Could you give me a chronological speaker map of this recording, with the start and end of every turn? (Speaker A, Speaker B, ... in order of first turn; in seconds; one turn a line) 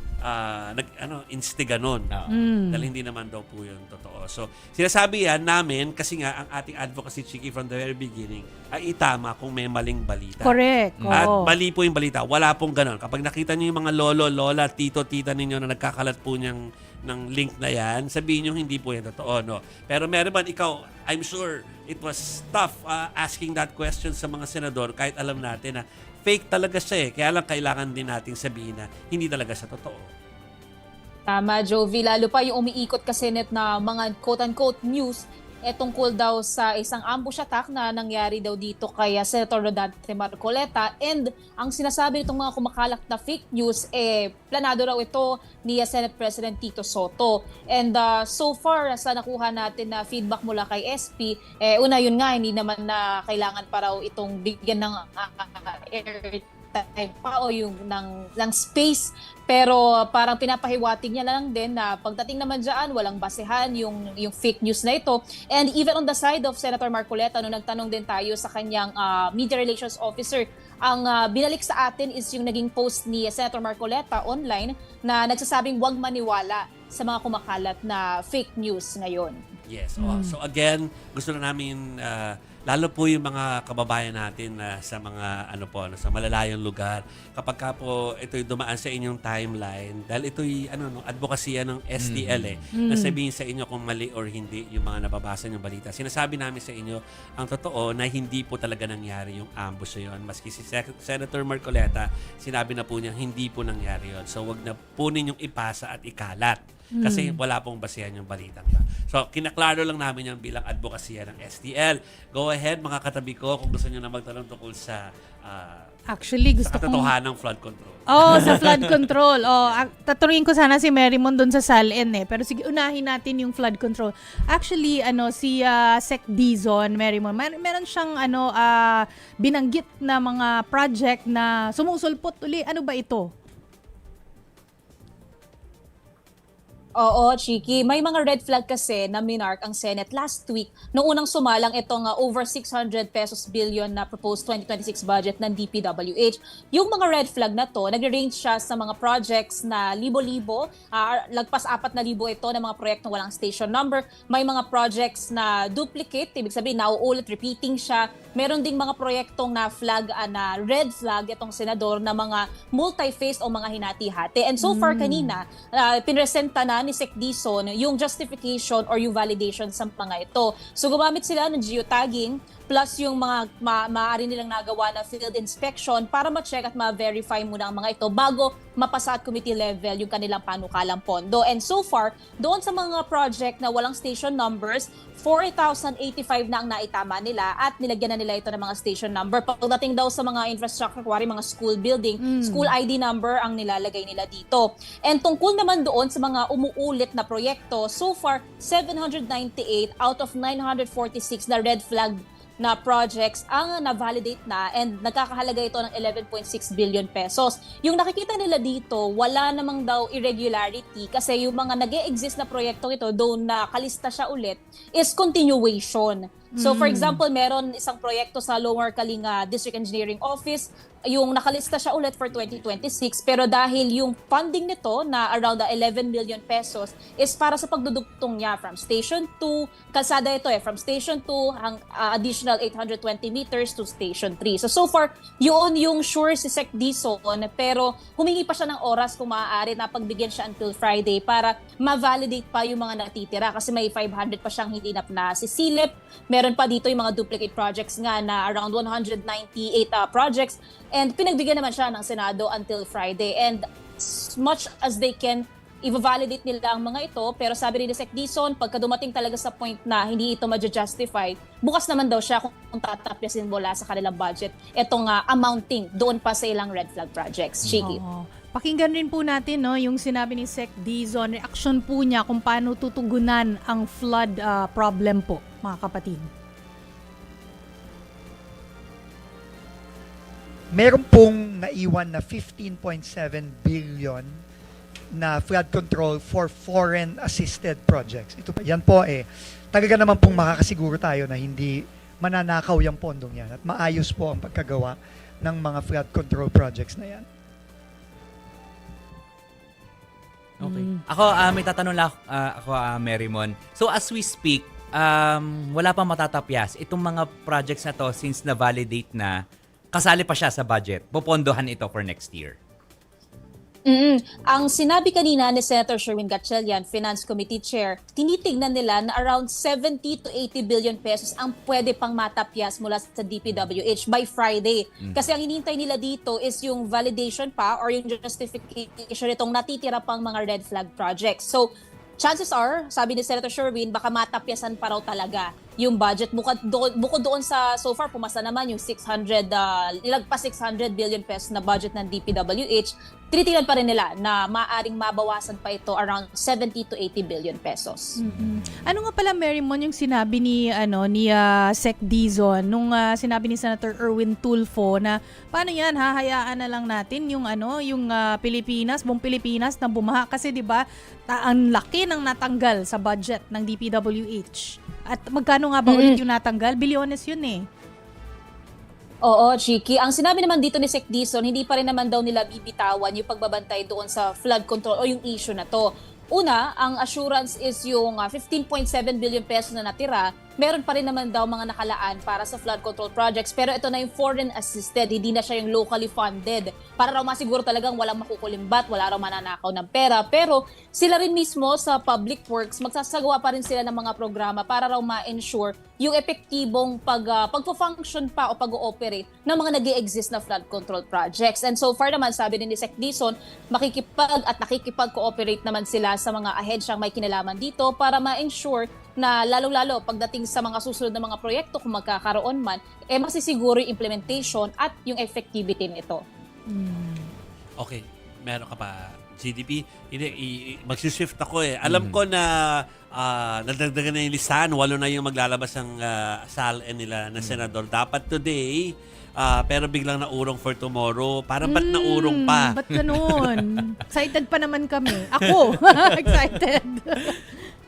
Speaker A: 0.2-2.1
Speaker B: 2.3-2.9
Speaker A: 2.7-30.1
Speaker B: 10.4-11.5
Speaker C: 11.0-11.4
Speaker D: 31.3-79.4
Speaker A: 79.7-115.9
Speaker B: 80.0-80.3
Speaker C: 92.0-92.6
Speaker B: 92.7-93.2
Speaker B: 106.9-107.4
Speaker B: 116.1-117.1
Speaker A: 116.6-119.0
Speaker B: 118.1-133.3
Speaker A: 119.6-119.9
Speaker D: 137.0-268.0
Speaker B: 164.6-165.3
Speaker B: 192.2-192.7
Speaker B: 216.6-217.2
Speaker B: 267.8-276.3
Speaker E: 280.7-284.4
Speaker E: 285.1-297.2
Speaker C: 300.6-312.6
Speaker B: 300.6-301.0
Speaker D: 313.9-331.7
Speaker D: 332.2-348.1
Speaker B: 348.1-367.7
Speaker C: 348.3-348.7
Speaker D: 365.9-366.2
Speaker D: 369.2-416.2
Speaker B: 416.7-417.3
Speaker A: 417.8-432.8
Speaker C: 421.9-422.2
Speaker C: 427.4-427.6
Speaker B: 431.6-437.7
Speaker C: 432.9-433.8